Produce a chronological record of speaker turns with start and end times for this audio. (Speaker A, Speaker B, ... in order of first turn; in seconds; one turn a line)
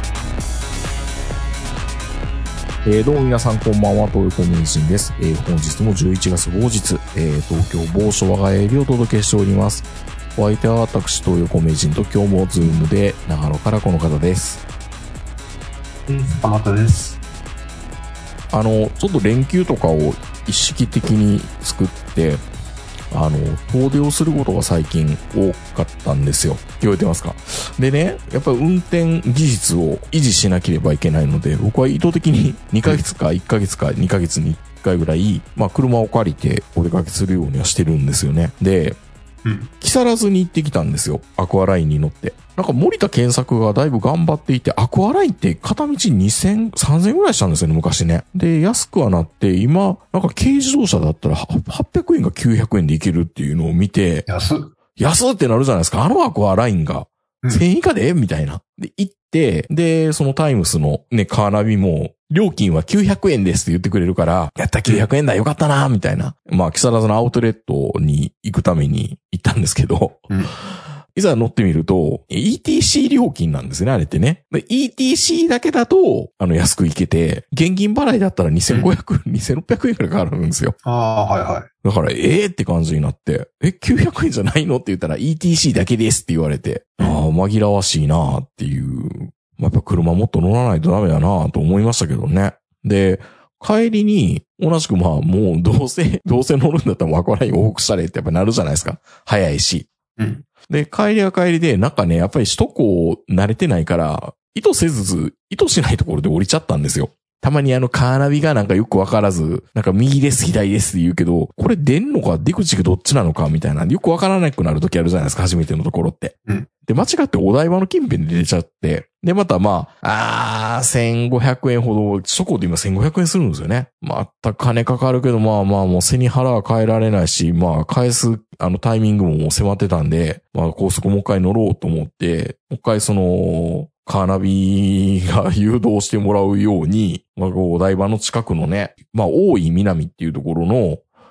Speaker A: 2.8-14.6
Speaker B: 16.1-17.2
Speaker A: 18.5-22.4
Speaker A: 23.1-39.0
Speaker B: 39.4-39.7
Speaker A: 39.8-54.2
Speaker B: 54.3-54.7
Speaker A: 55.0-80.8
Speaker B: 80.8-81.7
Speaker A: 81.8-99.9
Speaker B: 100.2-100.5
Speaker A: 100.7-116.3
Speaker A: 116.8-141.0